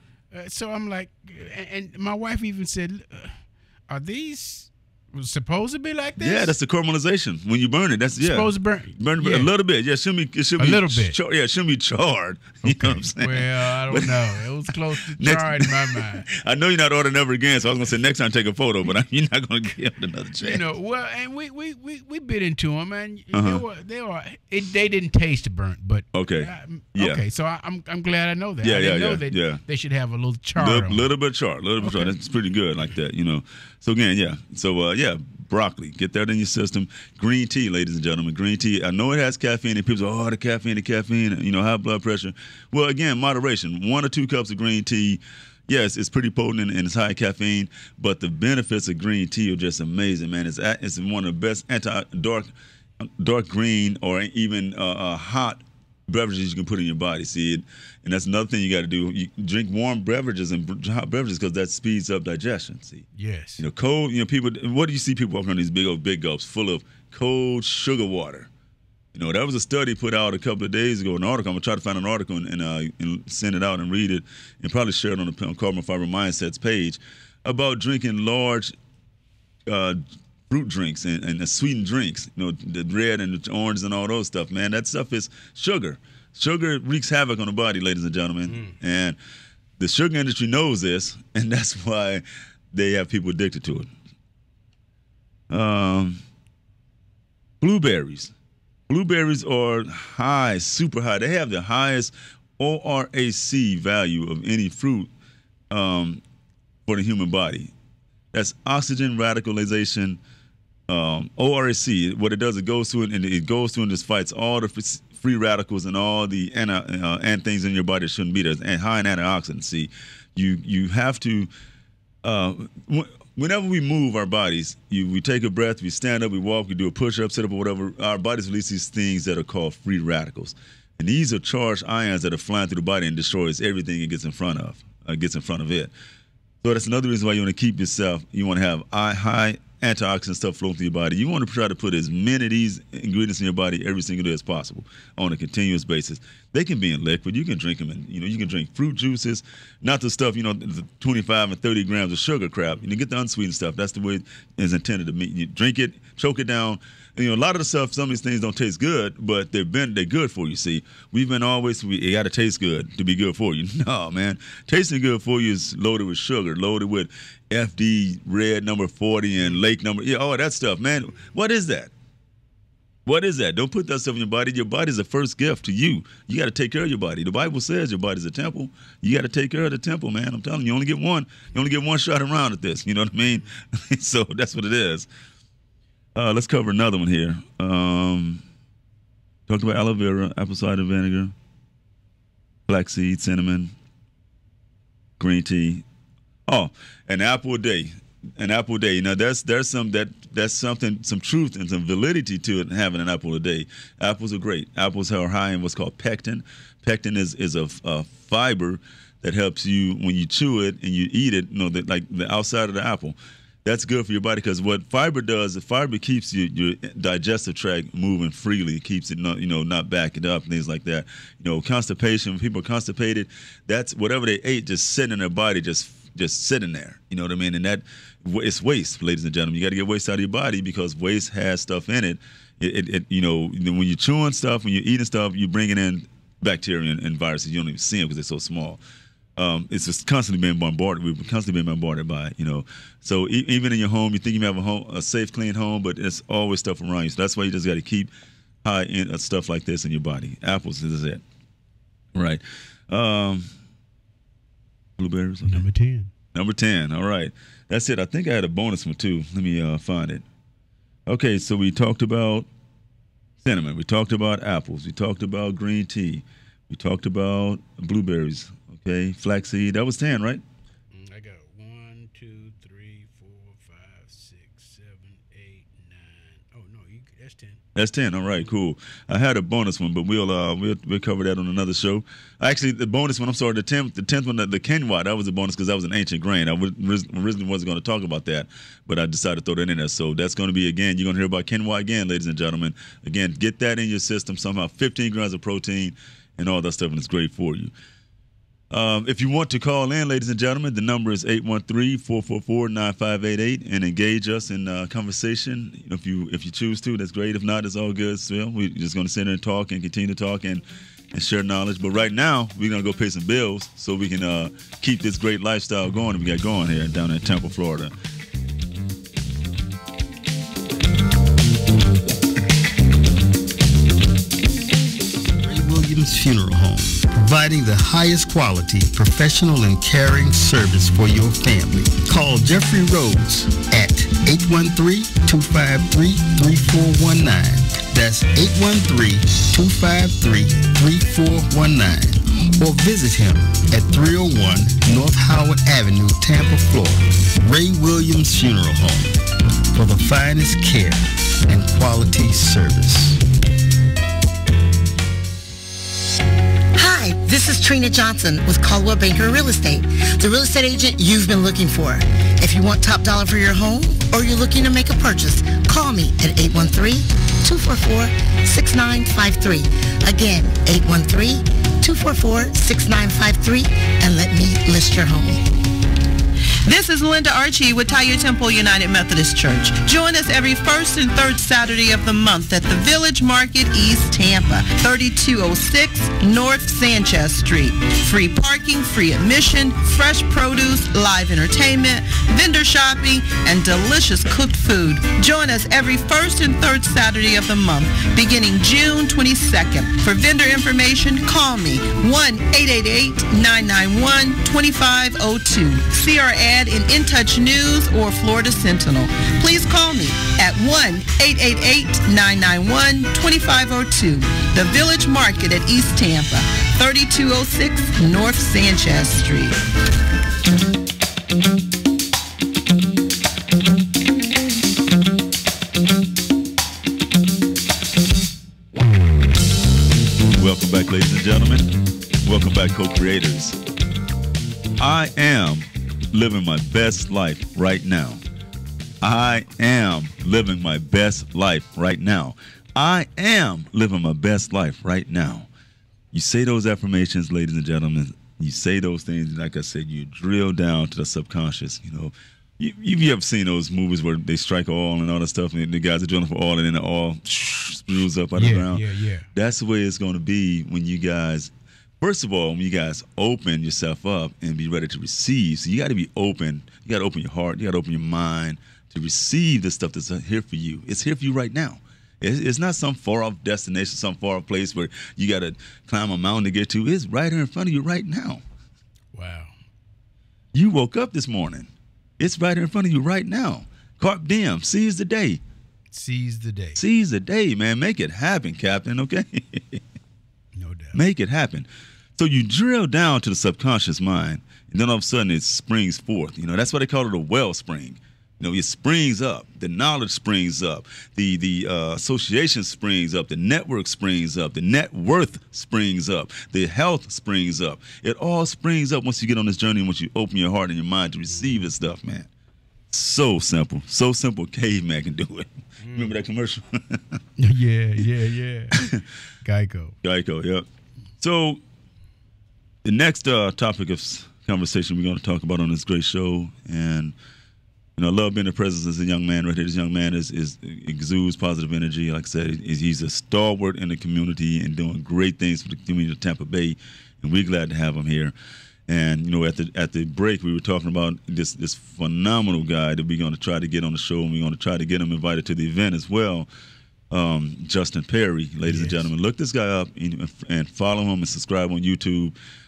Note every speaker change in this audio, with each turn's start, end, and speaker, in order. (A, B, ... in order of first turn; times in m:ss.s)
0:00.3-0:06.6 A
0:06.2-0:20.6 B
0:08.2-0:09.5 A
0:10.6-0:11.2 A
0:12.6-0:16.3 A
0:20.4-0:31.1 A
0:23.3-0:23.6 B
0:26.1-0:27.2 B
0:28.6-0:29.6 B
0:30.6-1:03.0 B
0:31.8-0:32.2 A
1:03.1-1:03.7 A
1:03.6-1:08.5 B
1:09.1-1:18.7 B
1:19.7-1:29.2 B
1:28.4-1:28.8 A
1:29.8-1:33.9 B
1:35.5-1:36.2 B
1:37.6-1:38.3 B
1:38.9-1:45.1 B
1:45.7-1:46.2 B
1:46.9-1:47.7 B
1:48.3-1:50.2 B
1:50.9-2:01.5 B
2:02.2-2:15.9 B
2:16.6-2:51.9 B
2:53.0-3:05.1 B
3:06.1-3:08.4 B
3:09.5-3:11.3 B
3:12.7-3:13.7 B
3:15.2-3:15.8 B
3:16.5-3:58.8 B
3:59.4-4:08.1 B
4:08.6-4:11.2 B
4:12.1-4:13.5 B
4:15.0-4:15.7 B
4:15.4-4:16.1 A
4:16.3-4:20.2 B
4:21.1-4:22.5 B
4:23.4-4:30.4 B
4:30.9-4:37.6 A
4:37.8-4:57.7 B
4:58.7-5:18.0 B
5:25.4-5:49.2 C
5:49.7-5:53.2 C
5:56.8-6:15.4 D
6:16.7-6:59.6 E
7:10.4-7:13.6 B
7:14.8-7:18.2 B
7:19.0-7:25.5 B
7:26.1-7:58.4 B
7:38.4-7:39.3 A
7:59.1-7:59.6 A
8:00.5-8:05.4 B
8:05.9-8:06.8 A
8:06.8-8:09.8 B
8:10.6-8:11.0 A
8:10.9-8:32.3 B
8:31.3-8:31.6 A
8:32.9-8:37.2 B
8:35.8-8:36.1 A
8:37.4-8:40.0 A
8:38.8-8:39.0 B
8:40.0-8:40.7 B
8:41.2-8:41.6 B
8:42.8-8:47.1 B
8:48.0-8:58.3 B
8:58.9-9:06.5 B
9:07.1-9:12.4 B
9:08.7-9:09.1 A